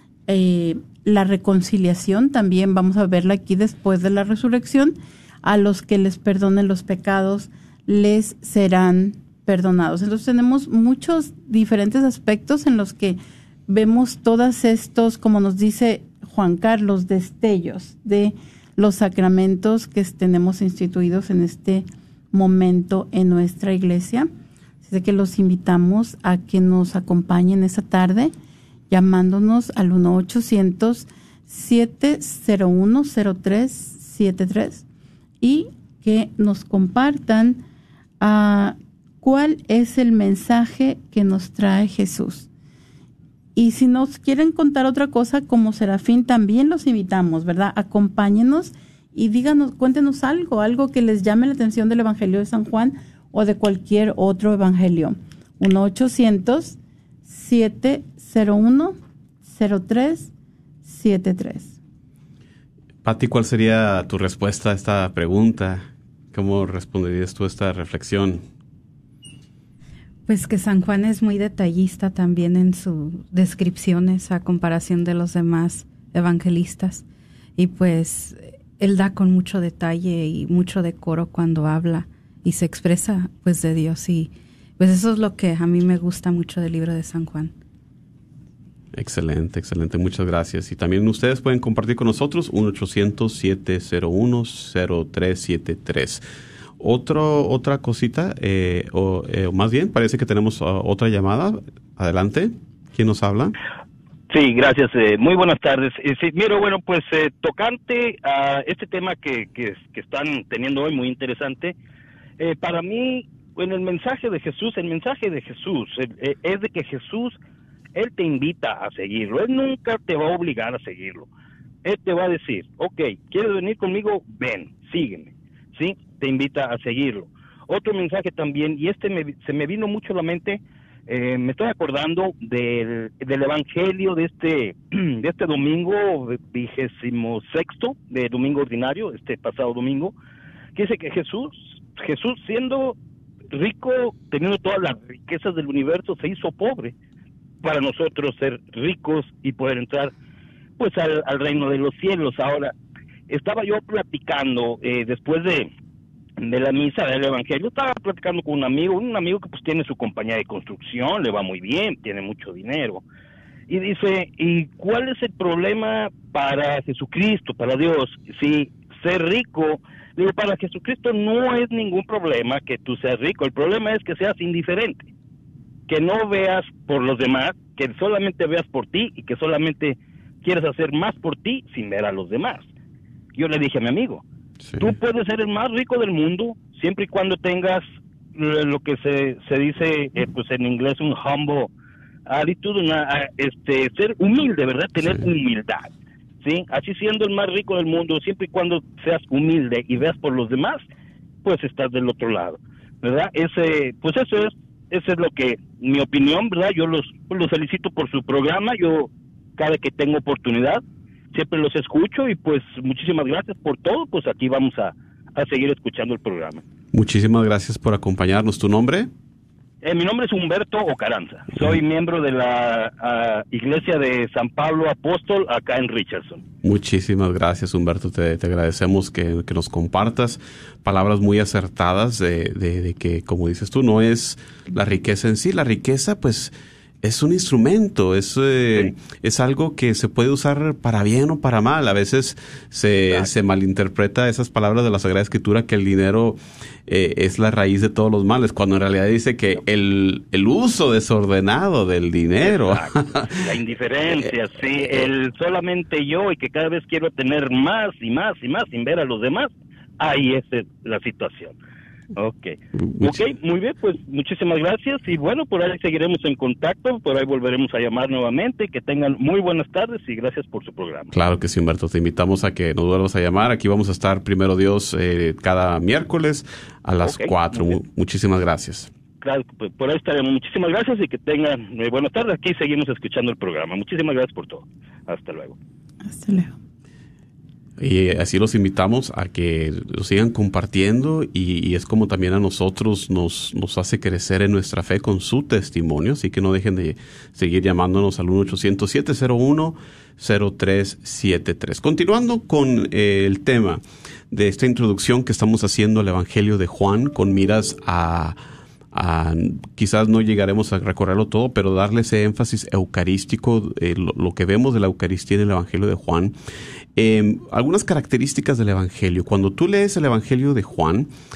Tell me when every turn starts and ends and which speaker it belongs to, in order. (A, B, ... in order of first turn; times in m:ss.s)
0:00.3-0:24.3 A
0:24.8-0:28.3 A
0:28.9-0:34.8 A
0:35.4-0:37.6 A
0:38.2-0:42.5 A
0:43.6-0:59.0 A
0:59.5-1:00.3 A
1:00.8-1:01.8 A
1:03.0-1:08.4 B
1:10.3-1:17.0 C
1:17.6-1:27.5 C
1:29.0-1:36.2 B
1:36.8-1:43.6 B
1:44.3-1:51.8 D
1:52.4-1:57.4 D
1:58.0-2:01.3 D
2:01.8-2:20.2 D
2:20.8-2:23.0 D
2:23.5-2:27.0 D
2:27.6-2:30.1 D
2:30.8-2:32.7 D
2:33.3-2:35.7 D
2:36.4-2:43.0 D
2:43.7-2:55.1 D
2:55.9-3:02.7 D
3:03.4-3:04.2 D
3:04.7-3:05.0 B
3:04.8-3:11.7 D
3:12.3-3:15.9 D
3:15.0-3:15.3 B
3:16.4-3:20.8 D
3:21.4-3:36.6 D
3:36.9-3:39.1 B
3:39.8-3:46.4 D
3:46.6-4:13.4 B
4:12.4-4:21.6 D
4:14.1-4:15.1 B
4:22.2-4:31.1 D
4:22.9-4:23.4 B
4:31.1-4:38.9 B
4:37.0-4:37.8 D
4:39.2-4:45.6 D
4:46.0-4:46.6 A
4:47.8-5:08.4 B
5:08.9-5:16.4 B
5:17.0-5:21.1 B